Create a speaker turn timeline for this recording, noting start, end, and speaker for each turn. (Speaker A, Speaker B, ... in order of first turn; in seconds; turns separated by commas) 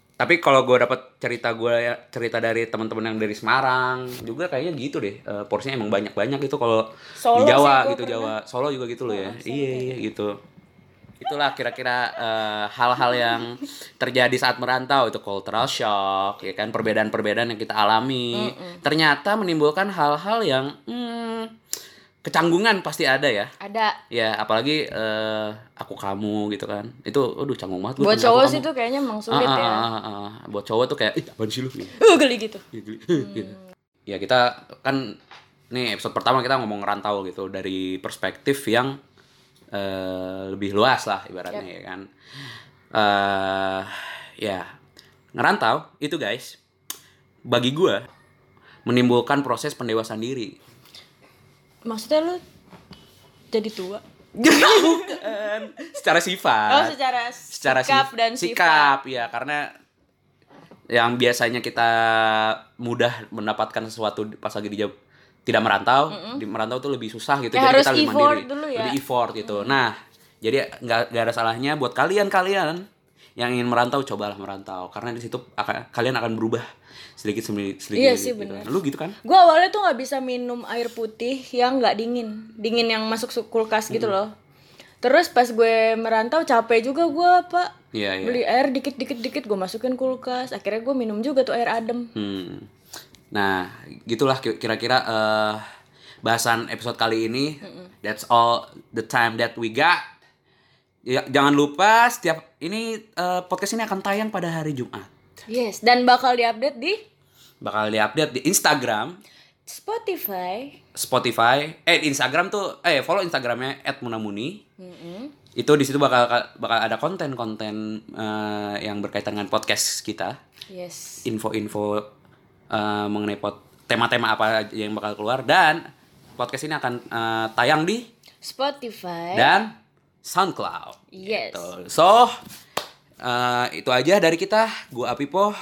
Speaker A: 0.2-10.3, Speaker B: 7.2-8.3, Speaker B: 9.1-10.0, Speaker A: 11.2-21.5, Speaker B: 13.0-13.5, Speaker B: 18.3-18.8, Speaker A: 22.2-23.5, Speaker B: 23.6-24.0, Speaker A: 24.1-28.7, Speaker B: 28.0-29.9, Speaker A: 29.3-32.0, Speaker B: 32.0-33.6, Speaker A: 32.7-33.5, Speaker A: 34.1-35.2, Speaker A: 35.7-39.0, Speaker A: 39.7-42.1, Speaker A: 42.9-44.6, Speaker A: 45.4-46.6, Speaker A: 47.5-48.0, Speaker A: 48.9-50.5, Speaker B: 51.9-52.4, Speaker B: 53.5-55.3, Speaker A: 54.4-57.0, Speaker B: 56.7-59.0, Speaker A: 57.5-59.7, Speaker A: 60.9-64.9, Speaker A: 65.5-72.8, Speaker B: 66.1-66.4, Speaker B: 67.5-69.8, Speaker A: 73.4-76.6, Speaker A: 77.2-79.2, Speaker B: 77.9-78.7, Speaker B: 79.2-84.3, Speaker A: 83.9-84.2, Speaker B: 85.0-92.1, Speaker A: 87.9-88.4, Speaker A: 92.1-92.7, Speaker A: 93.3-95.6, Speaker A: 96.2-100.0, Speaker B: 97.6-97.9, Speaker A: 101.1-105.1, Speaker B: 105.5-107.0, Speaker A: 107.6-109.2, Speaker B: 109.7-110.8, Speaker A: 110.9-114.6, Speaker B: 114.8-115.3, Speaker A: 115.6-120.3, Speaker B: 120.7-121.2, Speaker A: 121.2-122.1, Speaker A: 122.7-125.8, Speaker A: 126.4-128.0, Speaker B: 128.4-129.5, Speaker A: 129.3-129.7, Speaker A: 130.2-132.3, Speaker B: 131.1-131.7, Speaker A: 133.2-135.5